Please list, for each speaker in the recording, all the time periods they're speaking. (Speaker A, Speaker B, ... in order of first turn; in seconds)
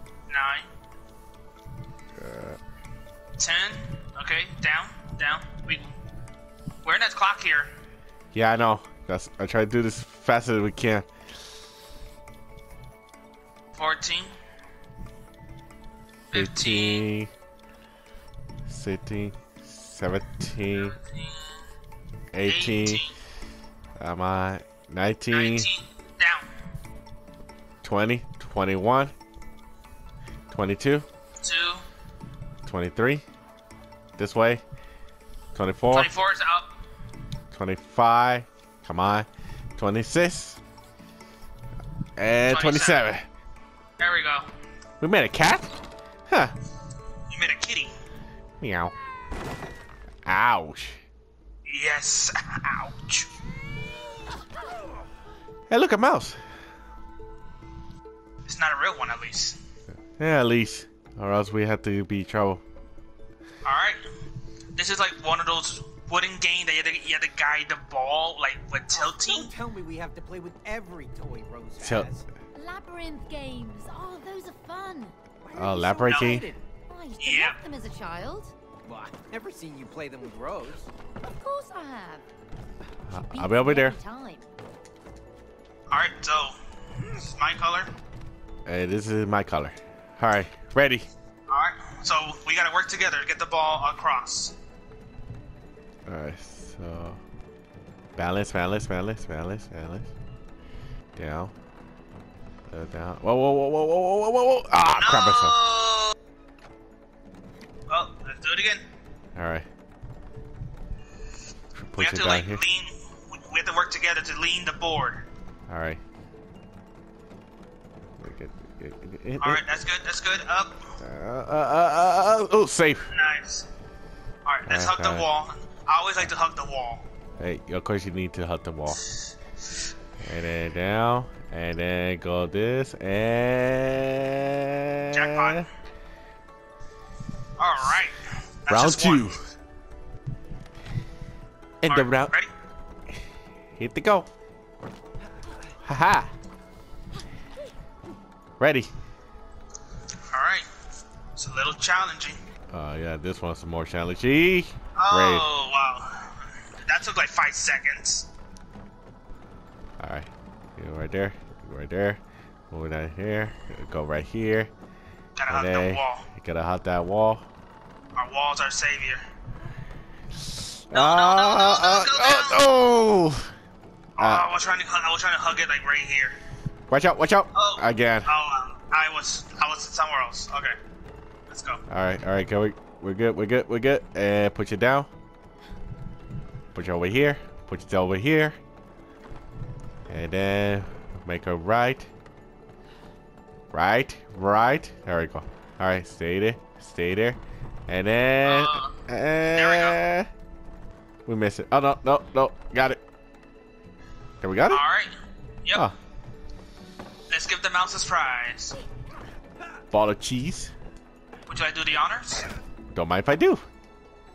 Speaker A: 0.3-0.7, 3.4-6.0, 6.8-7.7, 13.8-14.3, 16.3-17.1, 20.7-21.4, 22.4-23.1, 25.3-26.5, 31.4-31.9, 35.9-36.7, 42.5-43.0, 44.0-44.5, 47.3-47.9, 51.7-53.3, 58.5-59.6, 63.6-64.0, 64.8-69.5, 76.0-76.4, 77.2-77.6, 85.9-86.6, 87.1-87.9, 91.5-94.5, 105.0-106.2, 107.9-108.8, 112.0-115.2, 119.4-120.8, 123.1-123.7, 124.5-127.0, 135.1-135.7, 137.6-139.4, 141.9-142.5, 150.3-150.7, 151.4-152.4, 154.9-158.3, 165.4-166.3, 168.2-169.2, 170.9-172.6, 174.2-176.3, 177.6-180.8, 181.5-181.8, 198.4-198.9, 199.5-200.0, 204.7-205.1, 207.3-208.8, 211.5-212.5
Speaker B: 2.2-2.6, 8.3-11.1, 16.3-17.3, 18.7-21.0, 22.3-23.0, 24.0-25.7, 27.8-29.1, 30.5-31.1, 32.7-33.2, 34.2-34.6, 35.5-36.1, 37.5-40.6, 42.2-43.3, 45.0-45.7, 46.3-46.5, 48.6-48.9, 50.3-51.0, 55.7-56.4, 60.2-62.6, 71.8-72.1, 75.5-76.5, 83.1-84.0, 88.7-91.1, 96.1-97.2, 98.2-100.1, 101.2-101.5, 102.7-105.6, 109.4-109.7, 111.8-112.6, 115.7-116.0, 118.2-119.6, 121.0-123.1, 124.7-125.3, 127.4-129.0, 130.2-135.7, 138.7-139.4, 141.8-142.3, 143.8-144.3, 145.8-146.3, 148.6-148.9, 152.7-155.5, 160.0-164.7, 165.5-167.4, 170.5-173.5, 174.2-174.5, 176.9-178.3, 181.9-185.1, 186.7-188.6, 190.1-192.1, 193.7-200.3, 201.3-203.0, 204.4-204.8, 209.9-210.7, 212.9-213.6
Speaker C: 68.9-72.3, 75.4-76.6, 78.8-80.9
Speaker D: 72.5-75.2, 76.9-78.5, 81.2-82.2, 83.1-84.5